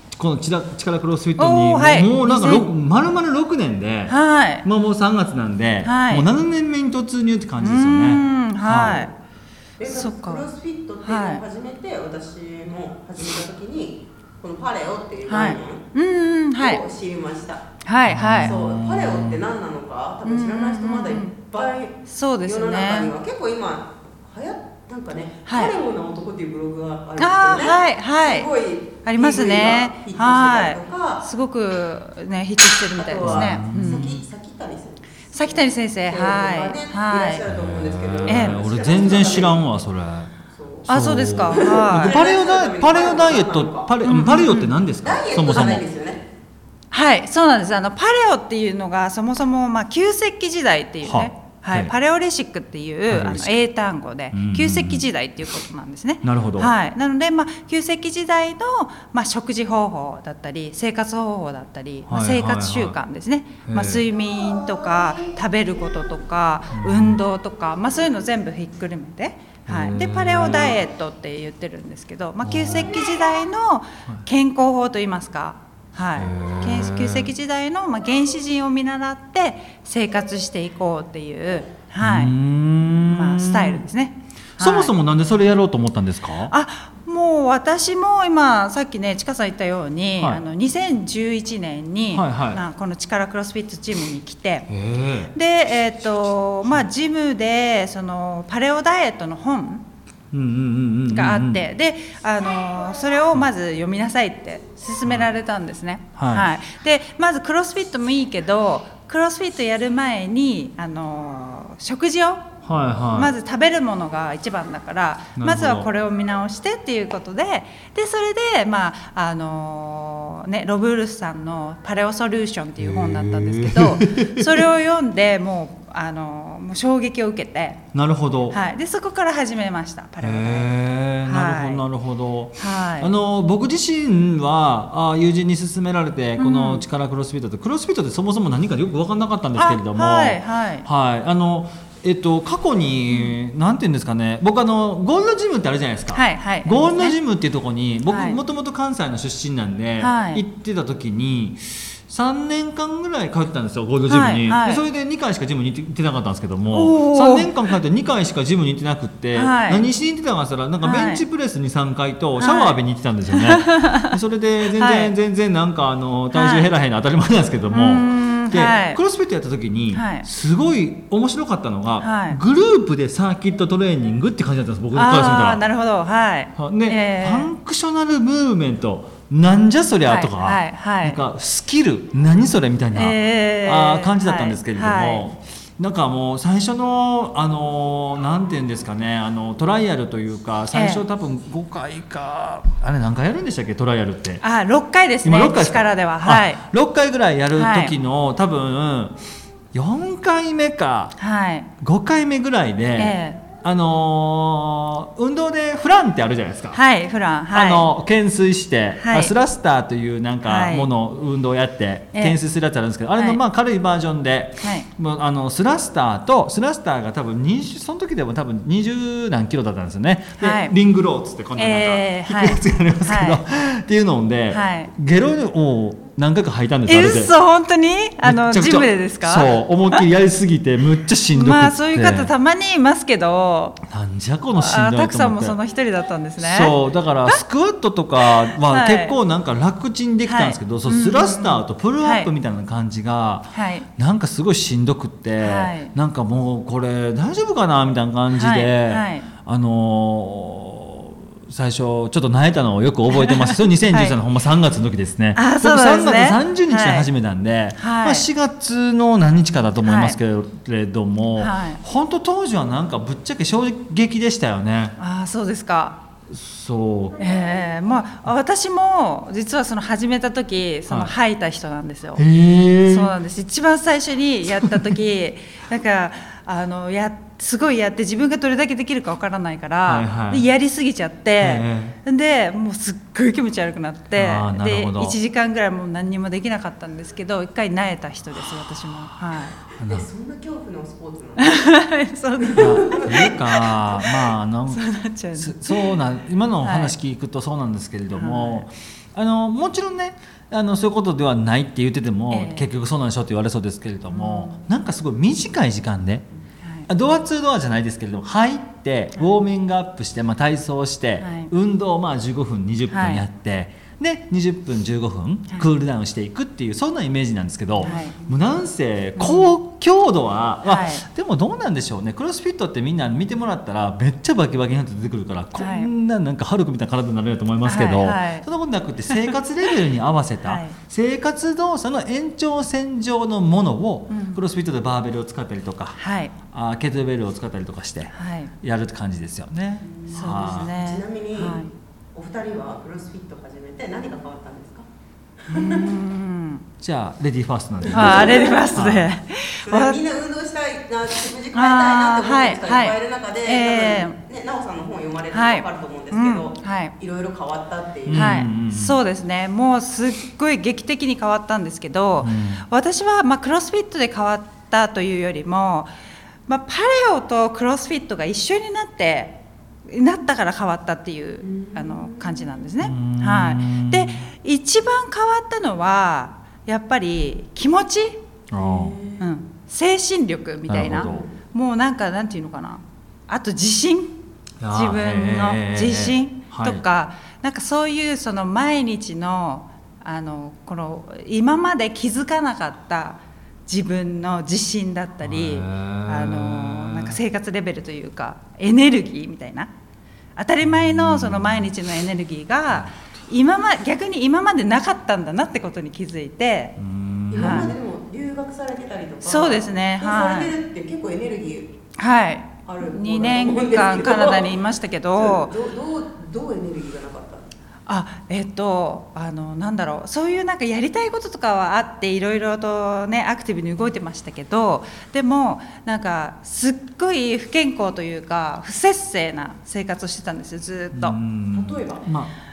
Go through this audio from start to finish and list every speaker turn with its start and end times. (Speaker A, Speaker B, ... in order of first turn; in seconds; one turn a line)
Speaker A: 0.1-9.1
Speaker B: 1.4-2.7
Speaker B: 4.1-4.7
Speaker B: 5.8-6.3
Speaker B: 7.6-9.1
Speaker C: 9.8-15.9
Speaker B: 9.8-10.5
Speaker B: 11.0-11.4
Speaker B: 15.3-16.8
Speaker C: 16.6-17.7
Speaker B: 17.8-18.5
Speaker A: 18.1-19.4
Speaker C: 18.4-31.3
Speaker B: 20.2-21.4
Speaker B: 22.1-23.1
Speaker B: 25.5-25.8
Speaker B: 27.2-28.5
Speaker B: 29.0-34.1
Speaker C: 33.0-39.6
Speaker A: 33.2-34.2
Speaker B: 35.3-37.4
Speaker A: 37.5-40.3
Speaker B: 38.3-38.6
Speaker C: 40.5-40.9
Speaker A: 40.9-45.8
Speaker B: 40.9-42.2
Speaker C: 41.5-43.9
Speaker B: 44.0-44.7
Speaker C: 45.0-46.3
Speaker B: 46.9-82.4
Speaker A: 51.0-51.9
Speaker A: 53.1-53.5
Speaker A: 54.3-55.0
Speaker A: 56.2-56.7
Speaker A: 62.1-63.0
Speaker A: 63.7-64.0
Speaker A: 66.7-67.2
Speaker A: 69.7-70.8
Speaker A: 72.4-73.0
Speaker A: 76.2-77.3
Speaker A: 82.0-83.8
Speaker B: 83.0-84.9
Speaker A: 84.6-86.5
Speaker B: 86.5-94.7
Speaker A: 92.1-92.6
Speaker A: 94.7-95.3
Speaker B: 95.3-99.9
Speaker A: 100.3-101.6
Speaker B: 101.1-112.5
Speaker A: 106.2-106.5
Speaker A: 112.6-113.3
Speaker B: 113.1-127.8
Speaker A: 115.4-115.9
Speaker A: 122.8-124.7
Speaker A: 127.9-128.6
Speaker B: 128.5-130.7
Speaker A: 130.2-175.7
Speaker B: 131.2-131.8
Speaker B: 132.6-133.1
Speaker B: 136.4-136.8
Speaker B: 139.6-140.9
Speaker B: 146.1-147.2
Speaker B: 148.1-148.4
Speaker B: 150.0-150.4
Speaker B: 154.1-154.8
Speaker B: 156.7-157.5
Speaker B: 159.3-159.8
Speaker B: 160.8-161.2
Speaker B: 162.4-162.8
Speaker B: 163.3-164.2
Speaker B: 164.8-165.1
Speaker B: 166.3-166.7
Speaker B: 167.7-169.0
Speaker B: 169.9-170.3
Speaker B: 172.0-172.4
Speaker B: 174.9-177.5
Speaker A: 176.6-194.4
Speaker B: 180.0-181.2
Speaker B: 182.9-185.2
Speaker B: 190.7-191.0
Speaker B: 194.4-196.6
Speaker A: 195.2-199.2
Speaker B: 197.6-197.9
Speaker A: 199.7-201.2
Speaker B: 201.2-201.7
Speaker A: 201.8-206.8
Speaker B: 203.0-203.4
Speaker B: 206.7-207.9
Speaker A: 207.5-227.3
Speaker B: 209.0-209.3
Speaker B: 210.4-210.9
Speaker B: 214.6-214.9
Speaker B: 220.4-220.7
Speaker B: 221.6-223.4
Speaker B: 224.5-224.9
Speaker B: 226.9-230.0
Speaker A: 228.2-232.3
Speaker B: 231.3-233.8
Speaker A: 233.9-235.6
Speaker B: 234.6-236.8
Speaker A: 236.4-265.0
Speaker B: 238.3-239.2
Speaker B: 240.2-242.3
Speaker B: 243.6-243.9
Speaker B: 245.4-245.9
Speaker B: 248.3-249.3
Speaker B: 253.2-254.2
Speaker B: 255.4-257.1
Speaker B: 257.8-258.3
Speaker B: 259.8-260.2
Speaker B: 261.4-261.8
Speaker B: 265.0-266.0
Speaker A: 266.3-267.3
Speaker B: 267.2-272.2
Speaker A: 270.9-271.1
Speaker A: 272.2-273.1
Speaker B: 272.8-289.6
Speaker A: 274.5-274.9
Speaker A: 279.9-280.5
Speaker A: 281.4-282.0
Speaker A: 284.1-285.2
Speaker C: 289.8-291.7
Speaker A: 289.8-290.1
Speaker B: 291.4-294.1
Speaker C: 292.4-293.4
Speaker A: 292.6-294.8
Speaker B: 294.7-296.0
Speaker A: 295.4-306.3
Speaker B: 296.6-296.9
Speaker B: 298.1-298.7
Speaker B: 302.3-302.7
Speaker B: 304.1-304.6
Speaker B: 306.6-306.9
Speaker A: 306.9-336.0
Speaker B: 311.2-311.5
Speaker B: 312.9-313.2
Speaker B: 317.8-318.2
Speaker B: 319.2-319.5
Speaker B: 320.6-321.1
Speaker B: 325.6-325.9
Speaker B: 327.6-328.5
Speaker B: 329.1-329.4
Speaker B: 330.4-330.8
Speaker B: 334.1-334.4
Speaker B: 336.0-336.3
Speaker A: 336.5-340.7
Speaker B: 338.1-338.5
Speaker C: 339.8-341.6
Speaker B: 340.1-341.7
Speaker C: 342.1-344.9
Speaker C: 345.4-345.9
Speaker B: 345.5-346.6
Speaker A: 346.8-349.1
Speaker B: 347.9-350.0
Speaker C: 347.9-348.6
Speaker C: 349.6-358.4
Speaker B: 351.5-354.2
Speaker B: 355.3-356.9
Speaker A: 358.1-359.0
Speaker B: 358.1-365.9
Speaker A: 362.2-362.6
Speaker B: 366.5-378.2
Speaker C: 371.4-372.6
Speaker A: 372.8-374.2
Speaker A: 378.5-379.0
Speaker C: 378.6-379.3
Speaker B: 379.2-384.2
Speaker A: 380.7-381.3
Speaker A: 384.6-386.8
Speaker B: 384.7-399.7
Speaker A: 395.2-397.2
Speaker B: 400.4-406.8
Speaker A: 400.6-401.7
Speaker A: 402.7-403.0
Speaker A: 406.8-407.7
Speaker C: 407.3-411.8
Speaker B: 407.4-407.7
Speaker B: 409.2-410.6
Speaker B: 412.0-415.6
Speaker C: 412.7-414.6
Speaker C: 415.2-417.5
Speaker B: 417.9-431.2
Speaker A: 430.9-432.3
Speaker C: 431.5-432.1